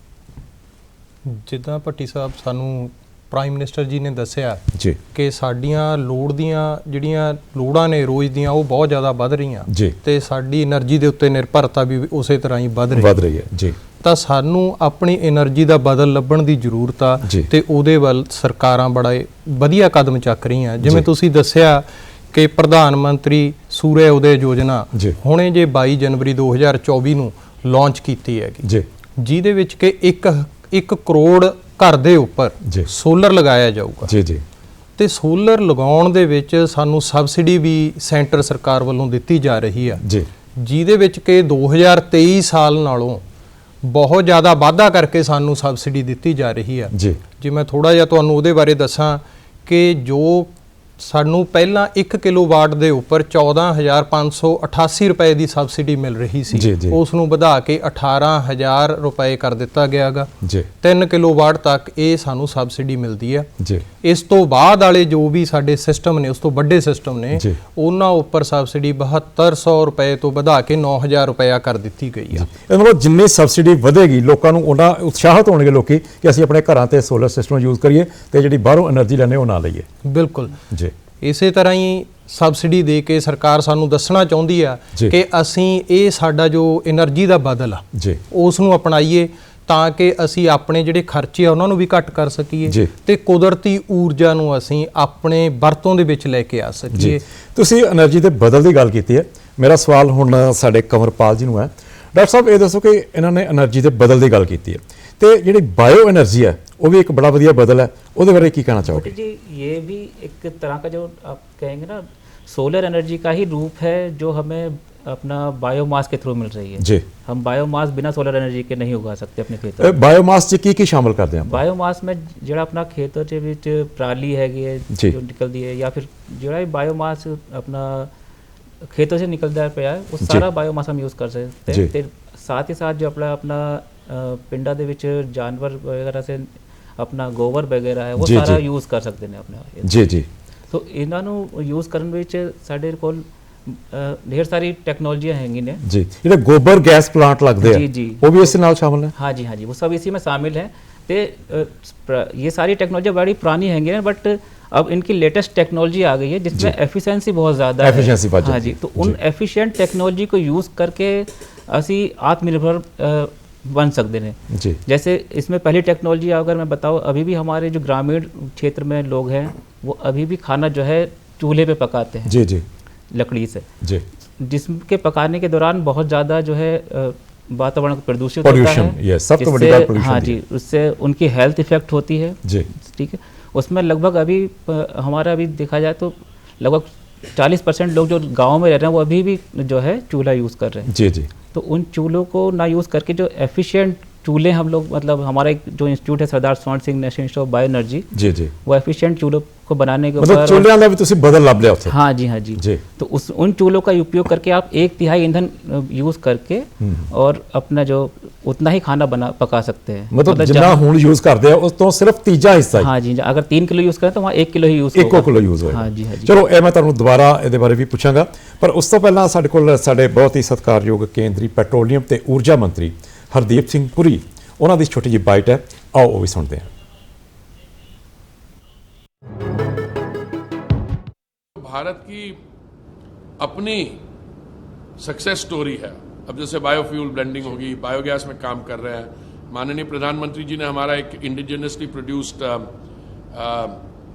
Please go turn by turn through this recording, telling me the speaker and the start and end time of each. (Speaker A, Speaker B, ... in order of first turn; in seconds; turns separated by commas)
Speaker A: 1.2-4.6, Speaker B: 4.7-5.0, Speaker A: 5.1-13.1, Speaker B: 9.7-9.9, Speaker B: 12.9-13.8, Speaker A: 14.0-28.7, Speaker B: 17.2-17.5, Speaker B: 20.8-21.1, Speaker A: 29.2-34.1, Speaker B: 34.1-34.4, Speaker A: 35.0-40.0, Speaker B: 40.0-40.3, Speaker A: 40.6-43.2, Speaker A: 43.8-60.3, Speaker B: 46.9-47.2, Speaker B: 56.5-57.0, Speaker B: 60.4-60.7, Speaker A: 60.8-63.5, Speaker B: 63.6-63.9, Speaker A: 64.0-72.5, Speaker B: 72.3-79.9, Speaker A: 80.0-80.6, Speaker A: 81.2-97.2, Speaker B: 87.9-88.2, Speaker B: 92.7-92.9, Speaker B: 96.9-109.1, Speaker C: 108.9-119.9, Speaker B: 116.8-117.0, Speaker B: 119.8-121.6, Speaker C: 121.5-128.1, Speaker B: 124.9-125.2, Speaker C: 128.9-139.9, Speaker B: 138.2-138.6, Speaker B: 139.8-140.3, Speaker C: 140.7-145.8, Speaker B: 145.8-149.1, Speaker C: 147.6-148.5, Speaker C: 149.2-172.4, Speaker B: 157.8-159.2, Speaker B: 164.5-164.8, Speaker B: 172.3-172.7, Speaker C: 173.1-173.7, Speaker C: 174.4-190.9, Speaker B: 178.4-180.4, Speaker B: 190.9-191.3, Speaker C: 191.5-198.1, Speaker B: 198.1-198.5, Speaker C: 198.7-200.7, Speaker B: 200.2-202.0, Speaker C: 201.9-210.8, Speaker B: 206.8-207.1, Speaker B: 210.1-212.9, Speaker C: 212.8-216.3, Speaker B: 214.9-226.7, Speaker D: 231.6-232.4, Speaker D: 233.4-234.0, Speaker D: 235.0-242.7, Speaker D: 243.3-243.8